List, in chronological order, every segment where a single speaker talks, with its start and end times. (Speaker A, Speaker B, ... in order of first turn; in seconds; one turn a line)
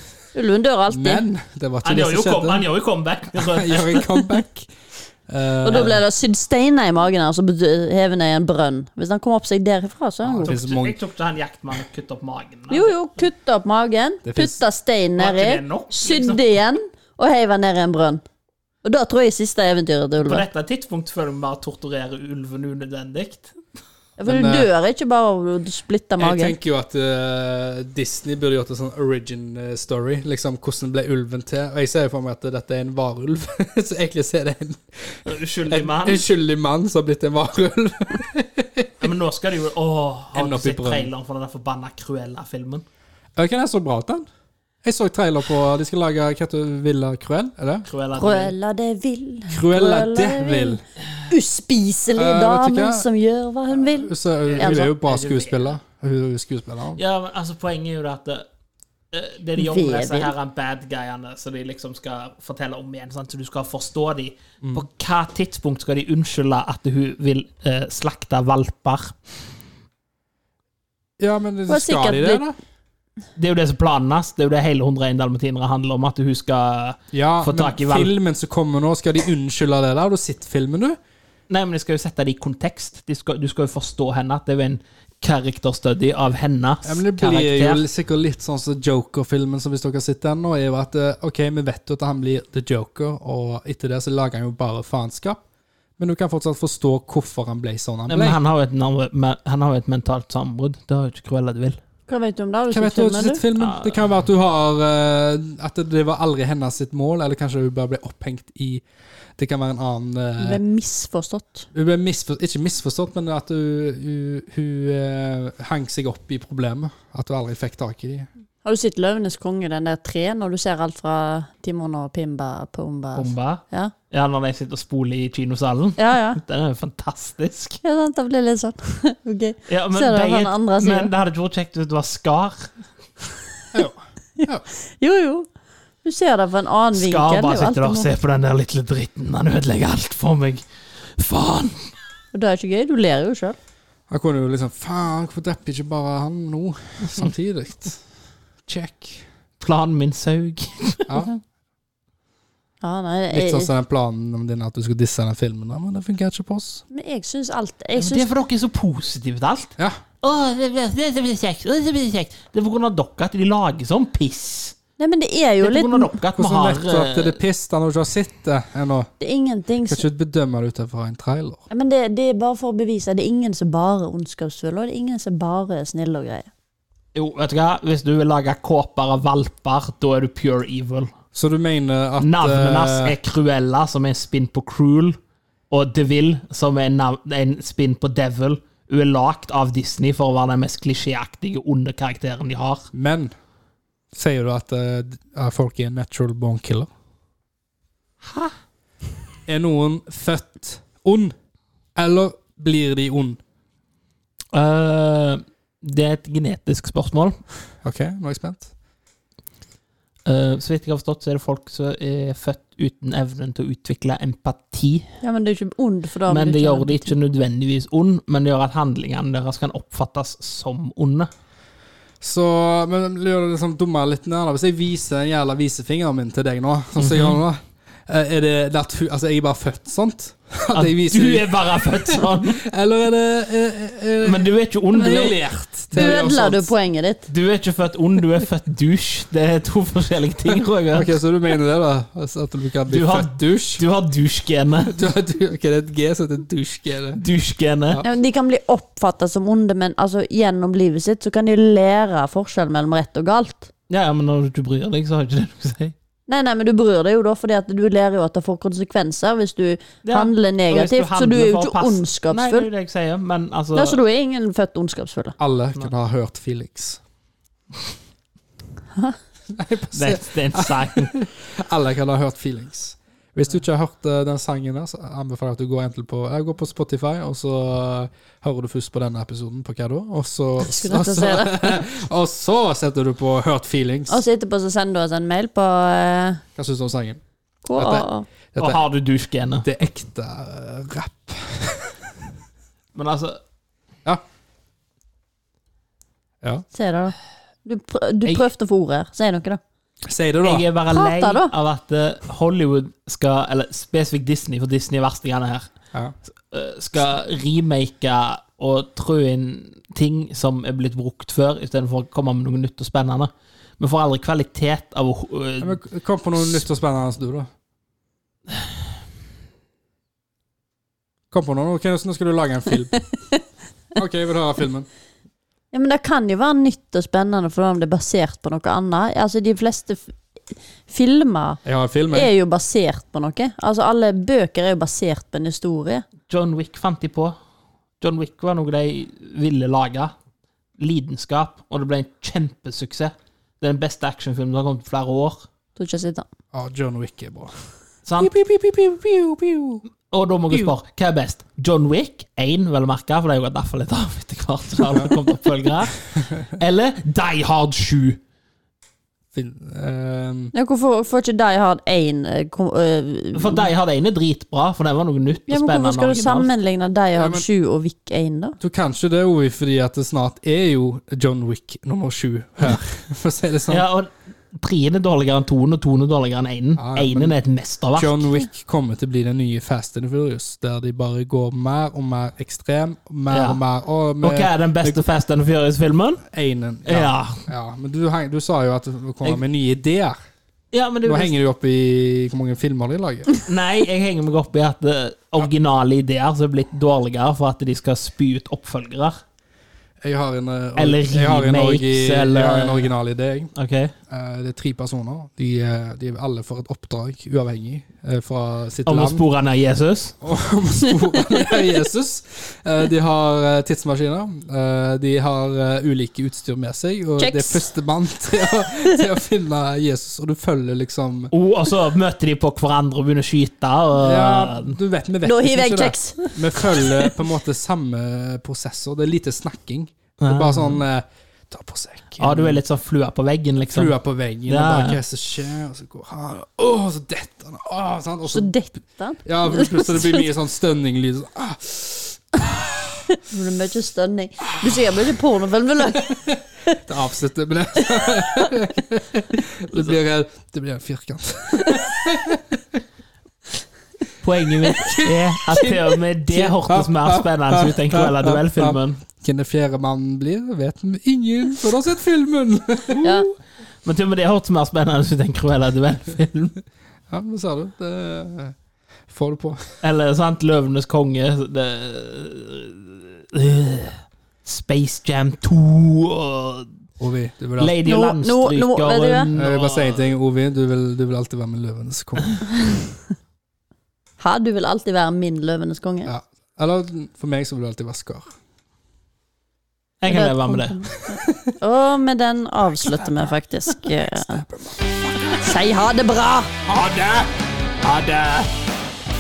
Speaker A: 0.3-1.2
Speaker B: 0.9-2.6
Speaker C: 1.8-4.3
Speaker B: 3.3-4.7
Speaker B: 5.3-6.0
Speaker A: 5.6-10.6
Speaker B: 10.2-11.0
Speaker C: 10.4-12.9
Speaker A: 12.7-18.2
Speaker B: 14.2-14.6
Speaker C: 15.2-16.4
Speaker A: 18.8-20.4
Speaker C: 20.2-23.6
Speaker A: 24.2-26.6
Speaker B: 24.3-24.7
Speaker B: 26.2-39.1
Speaker C: 35.3-36.2
Speaker C: 39.0-42.8
Speaker B: 40.3-41.1
Speaker B: 43.4-44.3
Speaker B: 44.8-47.9
Speaker C: 47.9-48.5
Speaker A: 48.1-54.9
Speaker B: 49.5-50.8
Speaker B: 52.1-53.1
Speaker B: 53.8-57.0
Speaker C: 54.5-55.8
Speaker C: 57.0-58.5
Speaker C: 59.1-69.1
Speaker A: 59.6-60.3
Speaker B: 71.2-72.6
Speaker A: 71.7-72.4
Speaker C: 73.4-78.1
Speaker B: 77.1-81.0
Speaker C: 81.5-87.8
Speaker B: 86.8-95.4
Speaker B: 96.0-98.4
Speaker C: 98.1-101.8
Speaker A: 102.1-103.4
Speaker B: 102.7-108.8
Speaker C: 103.6-104.0
Speaker B: 109.4-110.6
Speaker A: 110.4-111.7
Speaker B: 111.7-118.3
Speaker A: 118.6-123.9
Speaker C: 123.2-127.8
Speaker A: 126.0-126.4
Speaker A: 127.8-131.1
Speaker C: 129.7-132.7
Speaker B: 133.7-134.7
Speaker A: 134.9-135.5
Speaker A: 136.0-138.1
Speaker C: 136.9-140.6
Speaker C: 141.2-141.9
Speaker A: 142.3-143.6
Speaker B: 144.1-148.0
Speaker B: 148.7-149.2
Speaker C: 149.6-151.1
Speaker B: 151.1-151.3
Speaker A: 152.8-153.7
Speaker B: 153.3-156.8
Speaker A: 156.9-158.3
Speaker C: 158.0-164.8
Speaker A: 165.0-166.2
Speaker C: 165.6-167.4
Speaker B: 166.3-169.1
Speaker A: 169.2-170.1
Speaker B: 169.9-171.6
Speaker A: 171.7-176.5
Speaker C: 177.2-181.1
Speaker B: 181.3-183.2
Speaker C: 182.2-185.2
Speaker C: 185.7-192.9
Speaker B: 192.9-193.3
Speaker B: 194.1-196.9
Speaker C: 198.2-198.5
Speaker B: 199.5-201.3
Speaker B: 202.0-203.4
Speaker C: 204.5-207.4
Speaker B: 207.8-208.7
Speaker C: 210.3-215.1
Speaker A: 215.2-217.1
Speaker C: 216.3-221.3
Speaker B: 222.2-236.7
Speaker C: 227.0-227.4
Speaker C: 230.7-232.6
Speaker C: 234.2-235.4
Speaker A: 235.0-235.3
Speaker A: 235.9-237.3
Speaker C: 237.3-241.1
Speaker B: 240.9-243.8
Speaker C: 242.9-244.9
Speaker B: 244.8-247.2
Speaker C: 247.2-248.0
Speaker A: 248.0-253.7
Speaker C: 253.9-255.9
Speaker A: 256.3-262.7
Speaker C: 260.1-264.0
Speaker A: 263.8-265.4
Speaker B: 265.4-267.0
Speaker B: 269.5-284.2
Speaker C: 269.9-271.1
Speaker A: 280.6-281.8
Speaker A: 284.1-286.4
Speaker B: 286.6-287.2
Speaker A: 287.6-288.3
Speaker B: 287.8-288.8
Speaker C: 288.6-289.7
Speaker B: 289.6-292.1
Speaker C: 292.9-293.4
Speaker A: 296.7-299.6
Speaker B: 300.1-300.7
Speaker C: 300.4-305.7
Speaker A: 300.9-301.5
Speaker C: 306.5-315.8
Speaker B: 315.6-317.5
Speaker B: 321.3-323.0
Speaker B: 324.0-324.9
Speaker A: 325.7-330.2
Speaker A: 330.9-336.1
Speaker B: 331.6-332.3
Speaker C: 336.3-337.3
Speaker C: 338.0-340.1
Speaker C: 340.8-345.5
Speaker A: 345.8-346.3
Speaker B: 346.5-347.6
Speaker C: 348.1-348.3
Speaker B: 348.2-349.8
Speaker C: 350.1-358.2
Speaker B: 359.3-360.5
Speaker A: 360.5-363.7
Speaker C: 363.3-366.5
Speaker A: 365.5-368.6
Speaker B: 367.2-367.5
Speaker B: 368.6-373.9
Speaker C: 373.7-378.2
Speaker B: 376.8-377.4
Speaker B: 378.0-385.0
Speaker C: 383.3-383.6
Speaker C: 384.2-386.2
Speaker B: 386.3-390.2
Speaker C: 386.9-387.5
Speaker C: 390.7-391.3
Speaker B: 391.1-393.3
Speaker C: 393.5-399.1
Speaker B: 400.0-403.5
Speaker C: 400.8-402.9
Speaker C: 403.6-403.9
Speaker B: 404.1-409.2
Speaker C: 408.9-410.2
Speaker B: 410.2-421.3
Speaker A: 411.1-411.6
Speaker A: 417.2-417.6
Speaker C: 421.3-424.8
Speaker B: 424.0-432.6
Speaker A: 425.2-427.0
Speaker C: 430.2-430.8
Speaker C: 432.2-433.9
Speaker B: 433.7-438.5
Speaker C: 434.5-435.0
Speaker A: 438.3-440.3
Speaker B: 439.2-443.0
Speaker A: 443.2-446.8
Speaker B: 444.6-445.2
Speaker B: 446.0-452.8
Speaker C: 454.2-459.0
Speaker B: 454.6-463.1
Speaker C: 462.9-463.2
Speaker A: 463.0-463.3
Speaker C: 463.8-466.6
Speaker B: 467.1-468.6
Speaker B: 469.1-469.6
Speaker C: 469.8-476.7
Speaker B: 477.0-477.8
Speaker C: 477.6-480.1
Speaker A: 477.9-479.3
Speaker B: 479.4-482.4
Speaker A: 482.6-482.8
Speaker A: 484.2-486.1
Speaker B: 486.1-488.3
Speaker C: 490.0-490.9
Speaker A: 490.1-494.4
Speaker B: 491.1-491.5
Speaker B: 494.1-495.5
Speaker A: 495.3-496.5
Speaker C: 496.7-497.3
Speaker C: 497.8-498.5